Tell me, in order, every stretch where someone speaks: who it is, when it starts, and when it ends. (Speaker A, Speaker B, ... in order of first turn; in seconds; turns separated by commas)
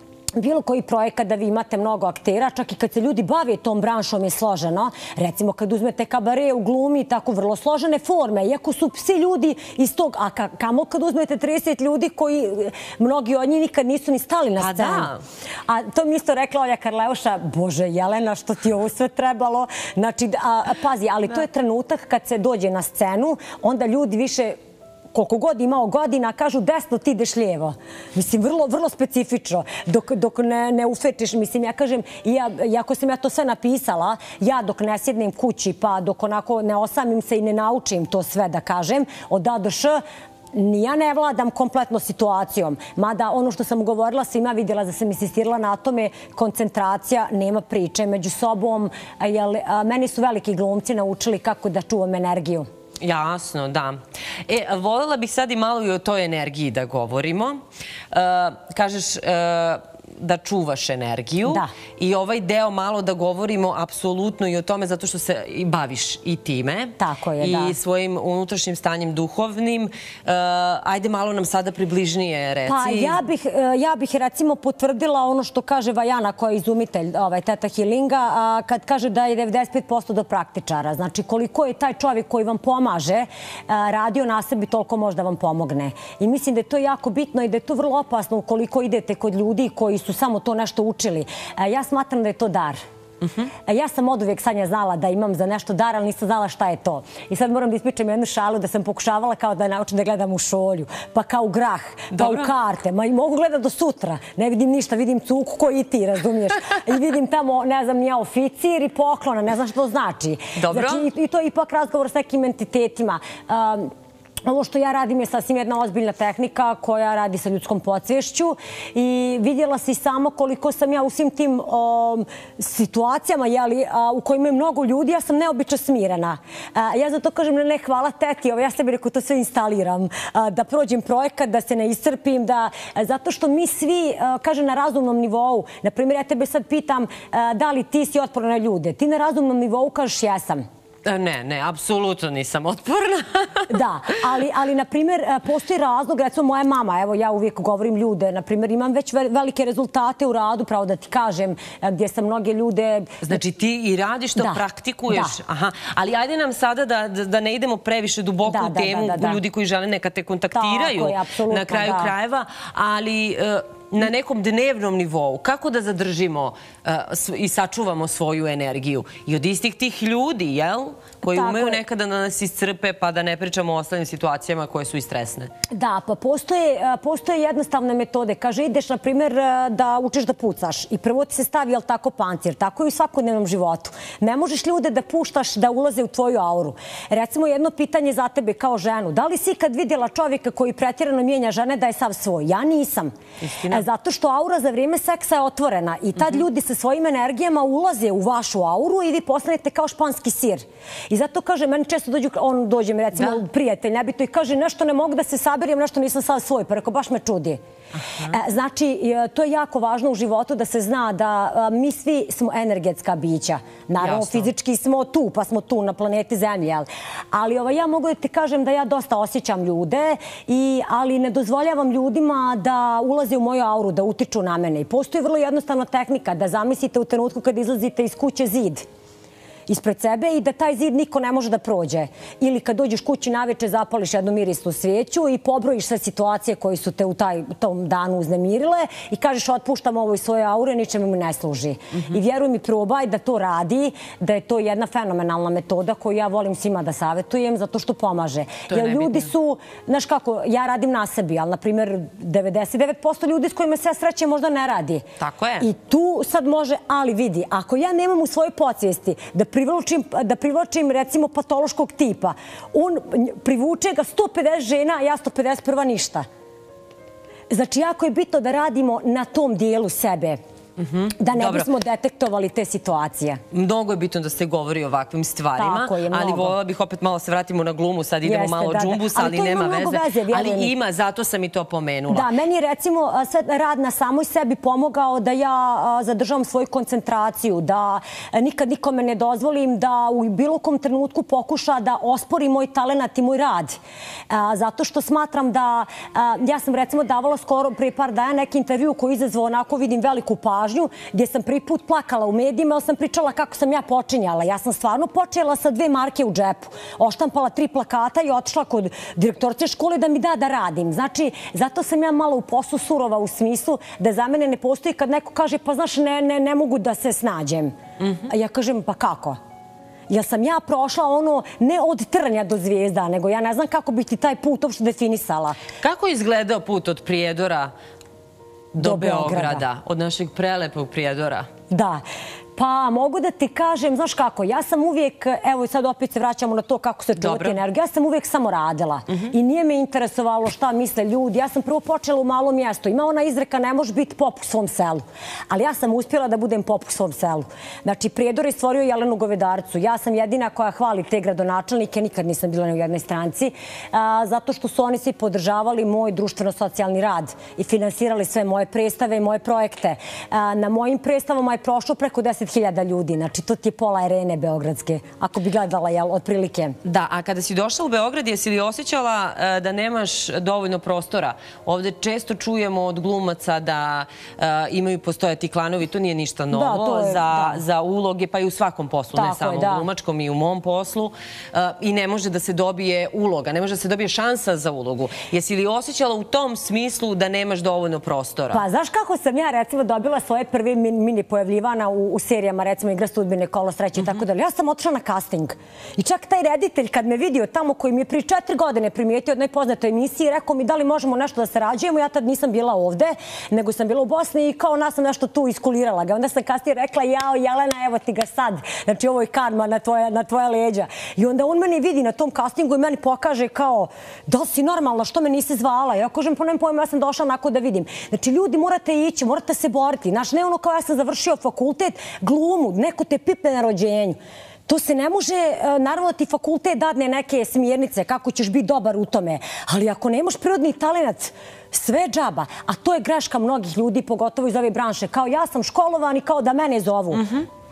Speaker A: 0.4-15.1, Speaker B: 14.6-15.2, Speaker A: 15.7-24.6, Speaker A: 25.1-40.0, Speaker A: 40.5-52.7, Speaker B: 53.0-57.6, Speaker B: 58.1-73.2, Speaker A: 61.5-61.7, Speaker A: 67.0-67.8, Speaker A: 72.7-92.8, Speaker B: 93.2-93.5, Speaker A: 93.7-113.9, Speaker B: 102.1-102.5, Speaker B: 110.6-111.1, Speaker A: 114.5-140.6, Speaker B: 141.1-143.7, Speaker A: 143.7-153.3, Speaker B: 153.2-175.5, Speaker A: 154.4-155.4, Speaker A: 158.4-159.4, Speaker A: 160.5-162.1, Speaker A: 171.2-171.8, Speaker A: 175.7-193.1, Speaker B: 193.4-193.8, Speaker A: 193.7-207.6, Speaker B: 208.0-208.3, Speaker A: 208.3-228.9, Speaker B: 214.0-214.5, Speaker A: 229.7-255.0, Speaker B: 248.7-249.3, Speaker B: 255.2-255.7, Speaker A: 255.6-266.3, Speaker A: 267.5-270.4, Speaker B: 270.8-271.7, Speaker A: 271.2-273.4, Speaker B: 273.5-282.3, Speaker A: 275.6-276.6, Speaker A: 278.2-280.7, Speaker A: 282.1-293.8, Speaker A: 294.3-317.7, Speaker B: 318.0-318.3, Speaker A: 318.3-319.4, Speaker A: 320.1-325.6, Speaker B: 325.8-327.7, Speaker B: 328.7-331.5, Speaker A: 328.8-329.6, Speaker A: 331.7-332.0, Speaker A: 332.6-366.8, Speaker B: 337.2-337.6, Speaker B: 366.8-388.6, Speaker A: 376.5-377.6, Speaker A: 379.1-379.9, Speaker A: 388.5-437.4, Speaker B: 437.1-437.4